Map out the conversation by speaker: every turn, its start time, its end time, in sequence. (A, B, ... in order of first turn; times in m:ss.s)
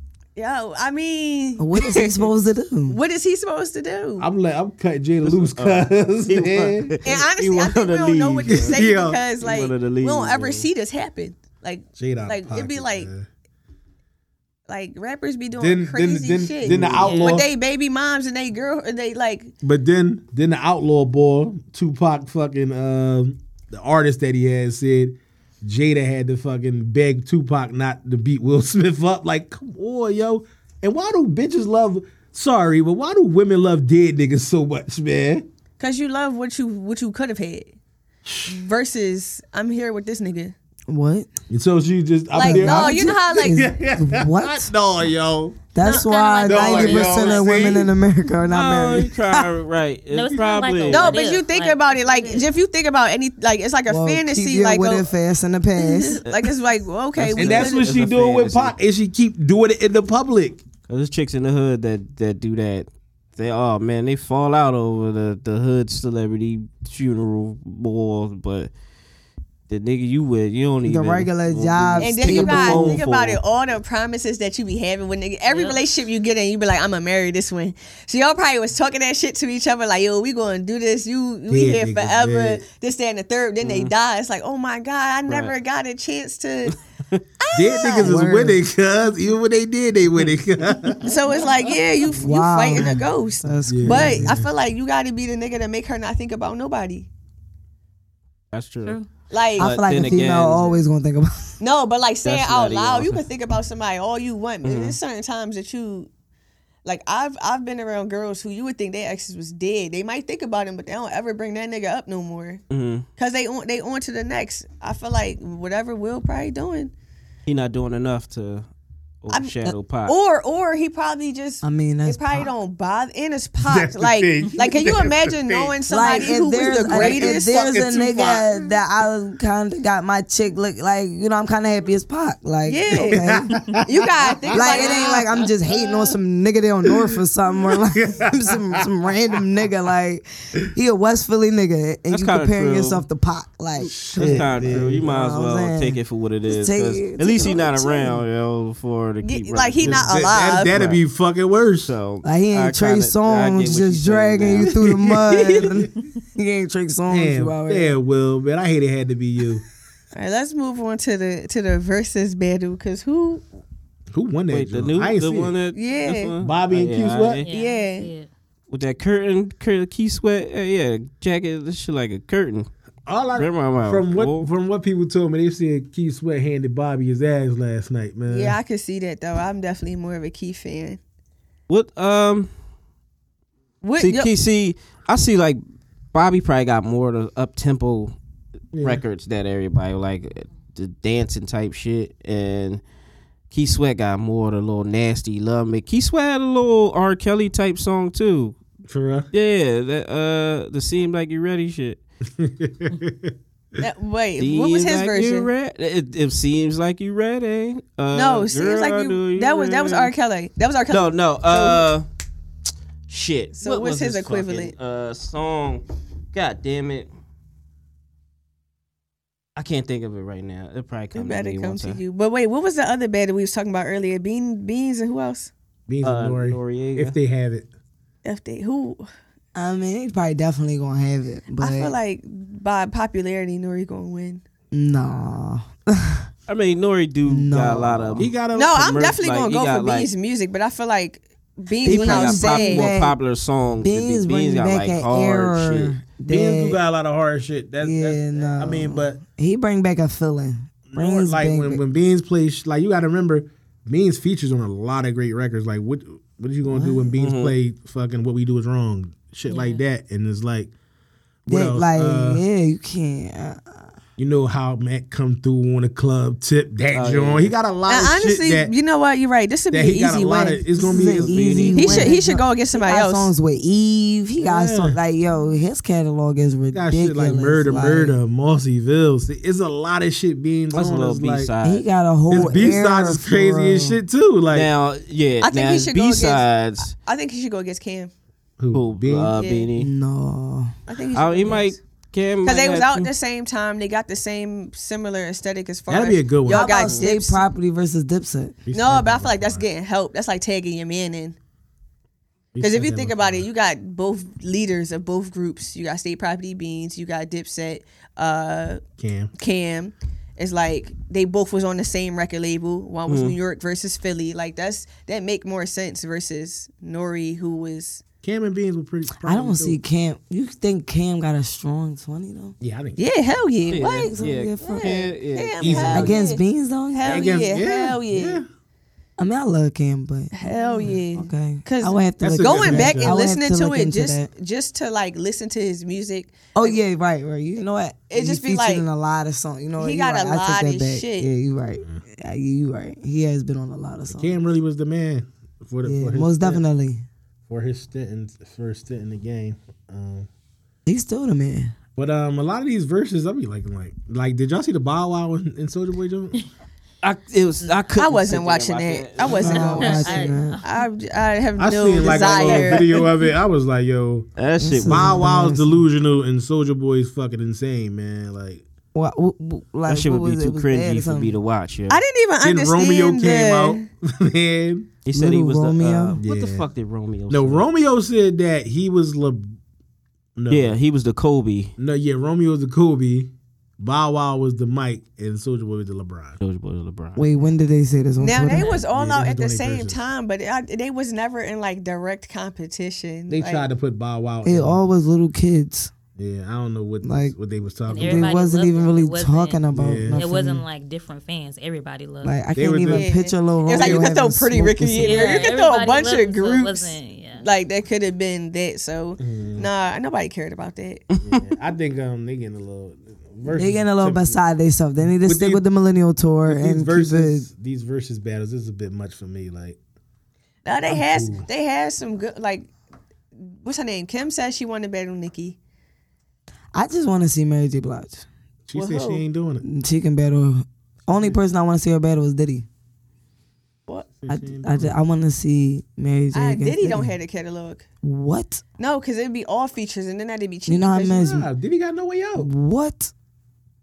0:00.4-0:02.2 A
0:01.6-0:03.0 B
0:02.9-0:04.3 A
0:04.2-0:07.0 C
0:05.2-0:08.8 D
0:07.0-0:13.1 A
0:08.5-0:09.2 C
0:09.4-0:10.7 D
0:12.0-0:13.2 C
0:14.7-0:19.5 A
0:15.6-0:17.4 C
0:16.6-0:17.4 D
0:19.6-0:35.4 C
0:35.8-0:37.7 A
0:38.2-0:38.6 C
0:38.4-0:40.5 A
0:40.9-0:41.3 B
0:41.5-0:45.6 C
0:42.3-0:43.6 A
0:42.4-0:44.7 B
0:45.7-0:49.2 B
0:45.8-0:47.3 E
0:45.8-0:47.6 A
0:46.5-0:47.9 C
0:48.5-0:51.2 D
0:50.1-0:52.5 E
0:50.9-0:55.1 A
0:53.9-0:56.2 B
0:55.8-0:57.8 A
0:57.2-0:58.7 D
0:57.3-1:00.6 C
1:00.9-1:08.7 D
1:09.7-1:13.4 D
1:10.8-1:13.0 B
1:12.0-1:26.7 A
1:15.5-1:15.8 E
1:21.5-1:22.6 C
1:23.6-1:23.9 D
1:25.3-1:25.5 D
1:27.4-1:28.1 A
1:27.5-1:31.1 C
1:28.0-1:28.6 B
1:31.0-1:37.1 A
1:32.1-1:34.4 B
1:33.7-1:34.5 C
1:38.5-1:39.0 D
1:39.3-1:39.7 A
1:39.6-1:40.7 D
1:39.6-1:41.6 B
1:41.6-1:46.1 A
1:42.2-1:43.2 D
1:44.6-1:45.0 D
1:46.8-1:52.6 A
1:52.7-1:53.0 D
1:53.2-1:56.9 A
1:57.5-1:58.7 D
1:59.2-2:00.1 D
1:59.3-2:07.8 A
2:01.6-2:02.5 B
2:03.6-2:08.7 C
2:05.9-2:13.6 B
2:12.6-2:13.2 A
2:12.9-2:13.9 C
2:13.8-2:15.4 A
2:14.5-2:15.2 C
2:14.5-2:28.2 B
2:16.9-2:18.8 C
2:22.1-2:23.0 D
2:23.8-2:31.0 D
2:23.9-2:25.1 C
2:29.2-2:30.7 A
2:29.8-2:31.9 C
2:31.8-2:34.8 D
2:32.2-2:38.0 B
2:34.8-2:35.7 C
2:35.3-2:35.7 D
2:37.1-2:39.6 C
2:40.1-2:43.4 A
2:44.1-2:45.5 C
2:44.5-2:47.5 D
2:45.7-2:46.3 A
2:46.4-2:47.4 C
2:47.4-2:48.3 E
2:47.4-2:48.1 A
2:48.7-2:52.7 D
2:53.1-2:58.6 C
2:53.4-2:54.5 D
2:58.3-3:01.0 A
3:01.7-3:02.5 D
3:03.8-3:04.3 A
3:04.0-3:05.6 D
3:06.1-3:08.1 D
3:08.7-3:09.0 C
3:08.8-3:12.8 D
3:13.5-3:18.6 D
3:18.9-3:19.3 C
3:19.3-3:22.0 D
3:22.4-3:23.3 C
3:23.8-3:25.5 A
3:24.4-3:30.1 D
3:28.1-3:31.9 A
3:30.9-3:32.0 D
3:33.1-3:37.1 D
3:33.6-3:34.7 A
3:39.6-3:42.0 D
3:41.1-3:45.5 A
3:45.9-3:47.7 C
3:46.0-3:47.1 D
3:48.2-3:49.0 A
3:49.5-3:51.9 B
3:51.6-3:54.4 A
3:54.7-3:56.3 B
3:56.5-4:00.1 D
3:57.2-3:58.3 B
3:58.2-3:58.8 C
3:58.5-4:02.9 A
4:01.8-4:03.2 B
4:01.8-4:06.0 D
4:03.8-4:06.8 B
4:06.3-4:09.2 C
4:07.8-4:11.8 B
4:10.9-4:20.7 C
4:16.6-4:17.1 B
4:17.2-4:17.6 D
4:19.5-4:19.8 E
4:21.4-4:22.4 C
4:21.5-4:23.9 B
4:24.2-4:28.7 C
4:26.9-4:27.5 D
4:27.9-4:30.6 A
4:29.7-4:31.7 C
4:30.8-4:38.2 B
4:30.9-4:32.1 D
4:31.8-4:33.3 A
4:34.4-4:35.0 C
4:36.7-4:41.5 C
4:40.7-4:42.8 D
4:41.6-4:44.0 B
4:42.3-4:44.7 C
4:44.5-4:46.9 D
4:45.4-4:48.1 A
4:48.6-4:49.3 C
4:48.7-4:49.9 D
4:49.4-4:49.7 A
4:49.8-4:50.8 B
4:50.9-4:51.8 A
4:51.1-4:53.1 D
4:52.4-4:57.4 A
4:55.9-4:56.8 C
4:56.5-4:58.6 B
4:58.7-4:59.6 C
4:58.7-5:01.4 A
5:02.5-5:03.4 C
5:02.6-5:08.8 A
5:09.0-5:09.3 C
5:09.4-5:18.0 A
5:13.1-5:13.4 D
5:18.2-5:19.8 C
5:19.2-5:22.5 B
5:22.6-5:23.0 C
5:23.0-5:26.4 A
5:23.7-5:26.1 D
5:23.8-5:24.9 B
5:25.6-5:26.2 C
5:25.6-5:27.3 B
5:26.9-5:28.4 A
5:27.0-5:28.4 C
5:29.2-5:34.3 B
5:30.4-5:36.8 A
5:32.2-5:33.2 C
5:36.5-5:44.4 B
5:38.1-5:38.8 A
5:39.8-5:41.3 A
5:44.1-5:46.6 C
5:45.8-5:47.0 B
5:47.5-5:50.3 C
5:50.8-5:51.7 B
5:52.0-5:56.4 C
5:57.0-6:00.0 D
5:58.0-6:02.9 A
5:59.3-6:00.6 B
5:59.5-6:00.6 E
6:01.6-6:04.3 C
6:04.4-6:05.2 D
6:04.6-6:05.9 B
6:04.8-6:08.6 C
6:08.9-6:11.3 B
6:09.9-6:12.0 D
6:11.9-6:13.8 A
6:12.4-6:14.9 C
6:15.0-6:17.7 D
6:15.1-6:16.2 B
6:16.2-6:16.6 C
6:17.3-6:19.5 C
6:20.4-6:20.7 C
6:20.5-6:21.7 D
6:21.8-6:26.4 C
6:26.4-6:27.2 D
6:27.2-6:28.8 B
6:28.2-6:33.6 A
6:28.5-6:28.9 E
6:28.9-6:30.0 C
6:33.3-6:34.8 C
6:34.4-6:35.9 B
6:36.2-6:38.4 C
6:37.0-6:37.4 B
6:37.9-6:42.5 E
6:38.0-6:40.6 B
6:39.7-6:40.2 C
6:42.2-6:45.5 B
6:42.6-6:43.1 C
6:42.9-6:51.0 A
6:43.7-6:44.2 C
6:45.0-6:47.4 E
6:49.2-6:49.7 C
6:51.1-6:51.4 D
6:51.2-6:54.4 C
6:53.4-6:57.5 B
6:55.0-6:55.6 C
6:56.4-6:59.8 C
7:00.6-7:02.7 A
7:00.9-7:01.4 C
7:03.5-7:05.6 A
7:06.7-7:08.2 B
7:08.7-7:09.6 C
7:08.7-7:09.2 A
7:09.6-7:12.7 B
7:11.1-7:11.4 C
7:14.2-7:14.9 C
7:14.3-7:17.1 B
7:16.3-7:17.8 A
7:18.0-7:18.6 B
7:18.8-7:21.3 A
7:20.7-7:21.5 B
7:21.1-7:22.5 C
7:22.4-7:23.1 B